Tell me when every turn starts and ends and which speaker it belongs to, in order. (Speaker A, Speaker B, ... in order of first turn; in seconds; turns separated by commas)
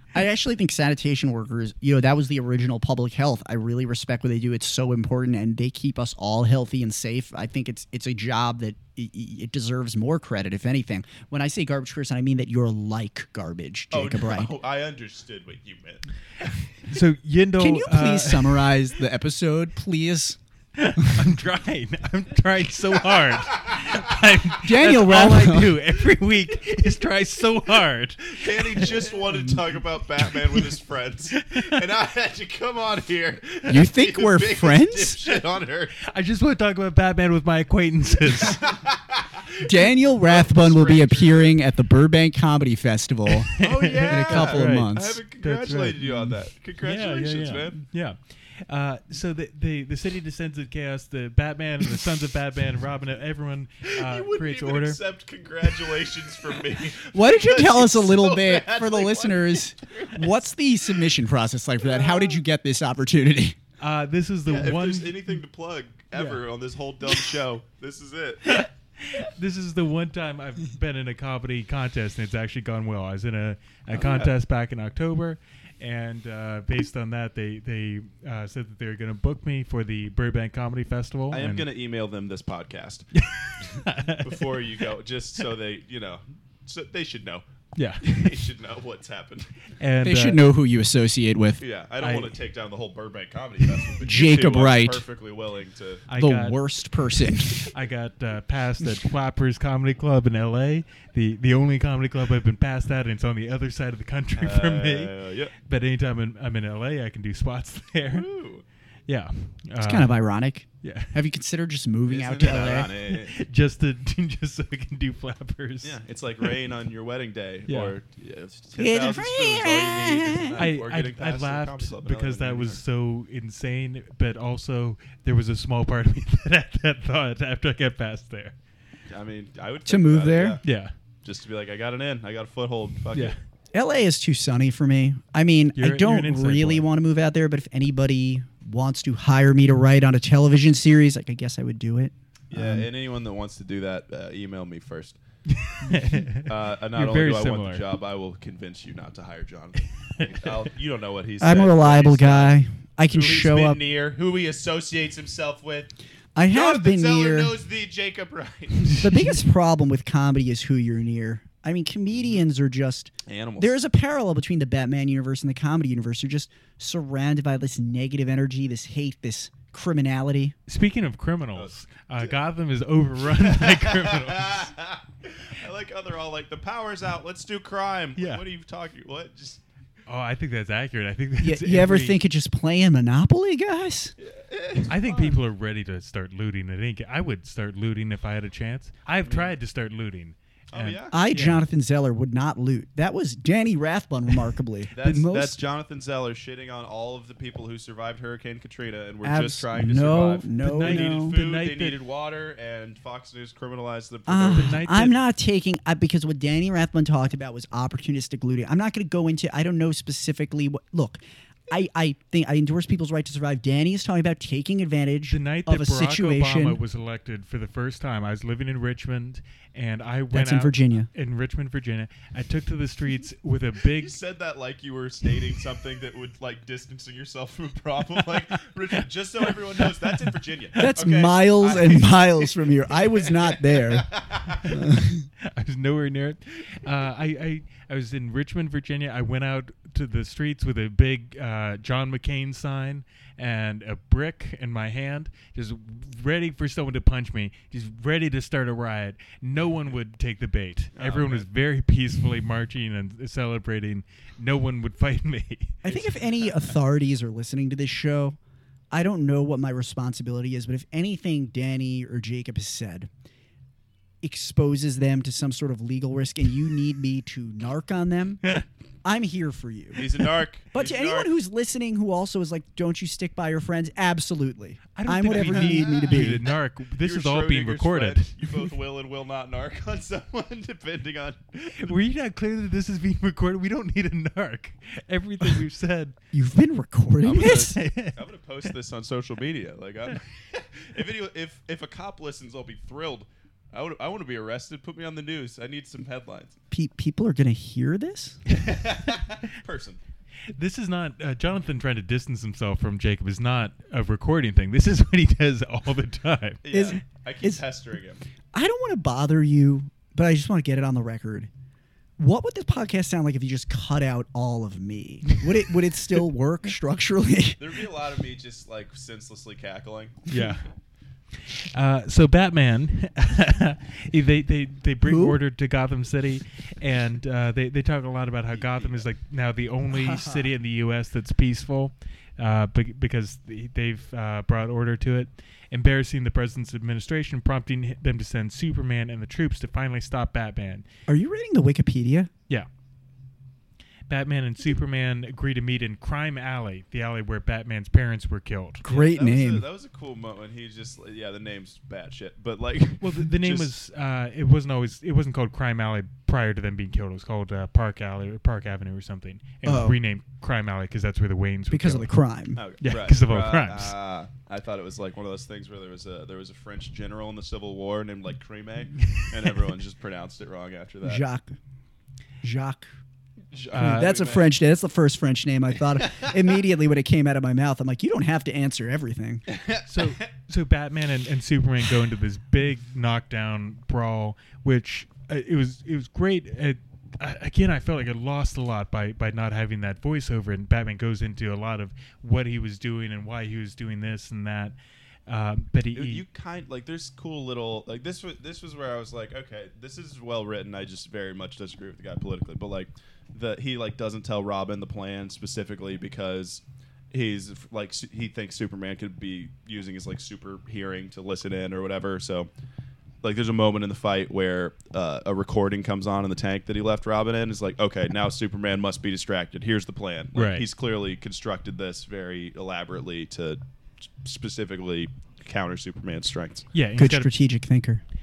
Speaker A: 0.1-14.5, Speaker B: 13.9-16.5, Speaker C: 16.9-18.7, Speaker A: 17.6-20.4, Speaker C: 20.8-29.3, Speaker B: 23.1-24.4, Speaker A: 24.6-25.8, Speaker B: 28.3-36.0, Speaker C: 30.3-30.7, Speaker C: 31.3-31.8, Speaker A: 33.7-35.2, Speaker C: 36.0-38.7, Speaker B: 38.4-41.6, Speaker A: 39.6-45.2, Speaker C: 43.5-55.0, Speaker B: 43.6-47.8, Speaker B: 53.9-60.3, Speaker A: 57.1-63.6, Speaker B: 61.8-62.4, Speaker C: 63.8-65.4, Speaker B: 64.5-68.7, Speaker C: 66.1-66.4, Speaker C: 68.5-81.7, Speaker B: 73.9-74.3, Speaker B: 81.3-83.1, Speaker C: 83.2-84.7, Speaker B: 84.2-87.4, Speaker C: 87.8-88.3, Speaker B: 88.0-89.5, Speaker C: 89.8-90.4, Speaker A: 90.0-91.6, Speaker B: 91.6-96.0, Speaker C: 92.0-92.3, Speaker A: 94.0-95.0, Speaker C: 96.1-96.6, Speaker A: 96.2-97.7, Speaker C: 97.2-108.3, Speaker B: 104.4-105.5, Speaker B: 108.1-108.6, Speaker C: 109.1-110.2, Speaker A: 109.8-112.9, Speaker C: 110.8-111.2, Speaker B: 112.1-113.4, Speaker C: 112.7-116.0, Speaker B: 115.8-122.8, Speaker C: 117.7-118.0, Speaker A: 118.8-120.6, Speaker C: 120.6-128.5, Speaker B: 129.1-130.6, Speaker A: 129.9-130.6, Speaker C: 130.6-130.9, Speaker B: 131.2-133.4, Speaker A: 133.7-142.9, Speaker C: 135.8-136.9, Speaker B: 142.5-145.2, Speaker C: 145.5-147.8, Speaker B: 146.4-152.6, Speaker A: 151.4-153.8, Speaker B: 153.1-155.9, Speaker A: 156.3-157.5, Speaker B: 156.5-159.0, Speaker C: 158.9-159.3, Speaker A: 159.0-170.6, Speaker B: 163.3-163.8, Speaker C: 170.7-174.7, Speaker B: 171.6-172.3, Speaker B: 173.2-179.6, Speaker C: 178.2-178.4, Speaker C: 180.1-182.2, Speaker A: 181.4-184.2, Speaker B: 184.2-185.4, Speaker C: 184.9-191.6, Speaker B: 189.2-189.6, Speaker B: 190.7-191.2, Speaker A: 191.1-195.6, Speaker B: 194.9-204.8, Speaker A: 199.2-201.4, Speaker C: 200.6-202.0, Speaker A: 204.3-216.8, Speaker C: 204.5-205.2, Speaker C: 215.3-224.1, Speaker A: 220.3-221.1, Speaker B: 223.9-232.5, Speaker A: 230.8-235.3, Speaker B: 233.2-234.7, Speaker C: 234.7-255.8, Speaker B: 251.0-251.5, Speaker A: 255.8-258.4, Speaker B: 255.9-256.5, Speaker A: 258.9-263.1, Speaker A: 264.2-268.4, Speaker A: 269.0-270.1, Speaker B: 270.0-271.3, Speaker A: 270.7-276.4, Speaker C: 274.9-278.4, Speaker B: 275.5-276.4, Speaker B: 277.0-281.9, Speaker C: 281.8-286.1, Speaker A: 286.3-287.8, Speaker B: 287.2-296.6, Speaker C: 287.3-288.2, Speaker A: 296.7-298.4, Speaker B: 298.5-300.0, Speaker C: 300.6-306.6, Speaker B: 306.6-308.2, Speaker A: 306.7-307.6, Speaker A: 308.5-311.5, Speaker A: 312.2-317.7, Speaker B: 317.6-320.2, Speaker C: 320.3-320.6, Speaker C: 321.4-340.9, Speaker A: 325.0-325.4, Speaker B: 328.6-329.1, Speaker A: 329.9-330.5, Speaker A: 341.1-342.3, Speaker C: 344.1-348.8, Speaker A: 348.8-349.6, Speaker B: 348.9-353.7, Speaker C: 353.0-362.1, Speaker A: 359.6-360.0, Speaker A: 361.7-362.6, Speaker B: 362.6-371.2, Speaker C: 362.8-363.9, Speaker C: 369.0-369.4, Speaker A: 371.0-371.6, Speaker A: 372.4-372.9, Speaker B: 373.5-374.5, Speaker C: 373.7-374.2, Speaker A: 373.7-379.5, Speaker B: 379.5-380.2, Speaker C: 379.9-394.8, Speaker C: 395.3-396.2, Speaker B: 395.9-412.5, Speaker B: 413.2-423.6, Speaker C: 420.4-420.7, Speaker B: 424.2-426.6, Speaker C: 426.7-427.3, Speaker A: 427.0-428.0